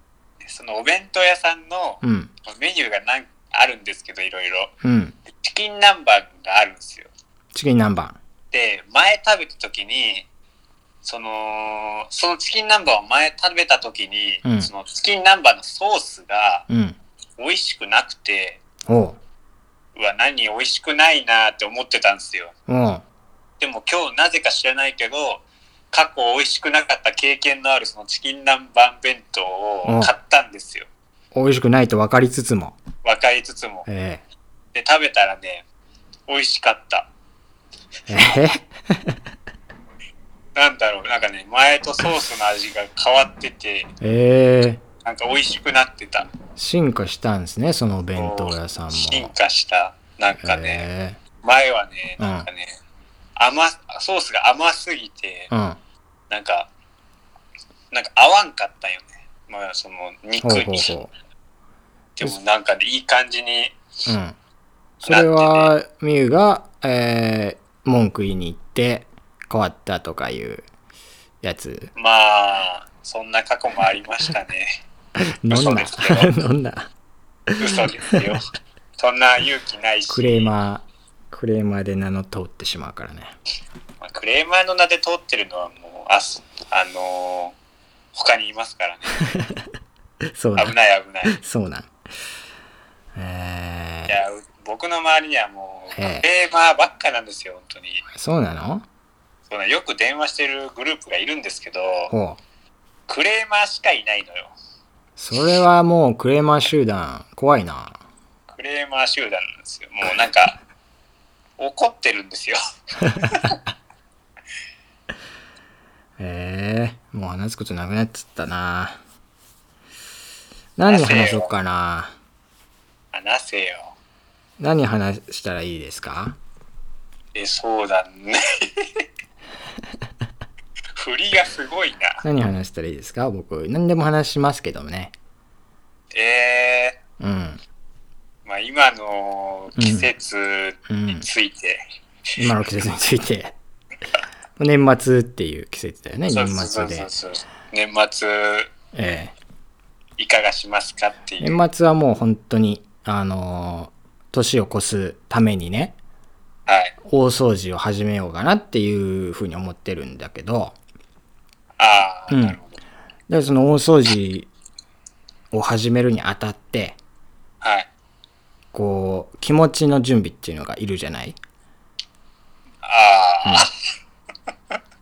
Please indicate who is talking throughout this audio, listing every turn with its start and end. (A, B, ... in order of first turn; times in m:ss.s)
0:00.4-0:04.7 A
0:02.0-0:02.3 B
0:04.8-0:05.2 B
0:05.4-0:07.1 A
0:07.5-0:08.2 B
0:08.5-0:10.2 A
0:11.0-0:16.7 A
0:14.4-0:14.7 B
0:16.7-0:17.0 B
0:17.4-0:18.6 A
0:18.9-0:19.2 B
0:20.0-0:22.5 A
0:22.7-0:23.0 B
0:23.6-0:30.9 A
0:29.8-0:30.1 B
0:31.3-0:32.8 B
0:33.0-0:33.9 A
0:33.9-0:34.2 B
0:34.7-0:35.6 A
0:36.3-0:37.1 A
0:38.1-0:38.7 B
0:40.5-0:43.9 A
0:44.0-0:44.8 B
0:45.0-0:46.3 A
0:46.6-0:49.3 B
0:48.1-0:50.9 A
0:50.4-0:51.2 B
0:51.4-0:52.7 A
0:52.2-0:52.5 B
0:53.4-0:55.5 A
0:55.5-0:55.8 B
0:56.3-0:56.7 A
0:57.9-1:00.9 A
1:00.4-1:01.1 B
1:02.2-1:03.8 A
1:04.1-1:04.4 B
1:05.0-1:05.7 A
1:05.0-1:10.6 B
1:11.4-1:11.9 B
1:11.9-1:14.8 A
1:15.4-1:16.9 B
1:15.5-1:16.3 A
1:17.5-1:18.2 B
1:17.6-1:18.4 A
1:19.0-1:20.5 A
1:20.1-1:23.3 B
1:24.0-1:27.5 A
1:28.1-1:29.2 A
1:30.4-1:30.7 B
1:30.6-1:31.4 A
1:31.2-1:31.9 B
1:33.2-1:34.2 B
1:34.1-1:38.0 A
1:36.0-1:36.3 B
1:38.1-1:38.8 B
1:39.5-1:42.1 A
1:42.1-1:42.4 B
1:43.1-1:44.5 A
1:45.2-1:48.0 B
1:48.5-1:50.6 A
1:51.6-1:52.6 A
1:53.2-1:53.6 A
1:56.2-1:59.0 B
2:00.8-2:02.1 B
2:00.9-2:01.5 A
2:03.1-2:03.9 A
2:04.6-2:06.4 B
2:07.3-2:09.0 A
2:11.0-2:12.2 A
2:12.2-2:15.1 B
2:16.1-2:17.0 A
2:17.2-2:17.6 B
2:18.4-2:21.8 A
2:19.8-2:20.1 B
2:20.9-2:21.2 B
2:22.4-2:23.5 B
2:24.6-2:27.1 B
2:26.3-2:28.7 A
2:28.9-2:29.3 B
2:30.2-2:31.6 A
2:31.4-2:36.0 B
2:36.7-2:36.9 A
2:37.0-2:40.8 B
2:41.8-2:42.8 A
2:42.3-2:42.6 B
2:43.3-2:44.5 B
2:45.5-2:47.0 B
2:47.6-2:47.9 A
2:48.7-2:51.4 B
2:52.8-2:53.7 A
2:53.4-2:53.7 B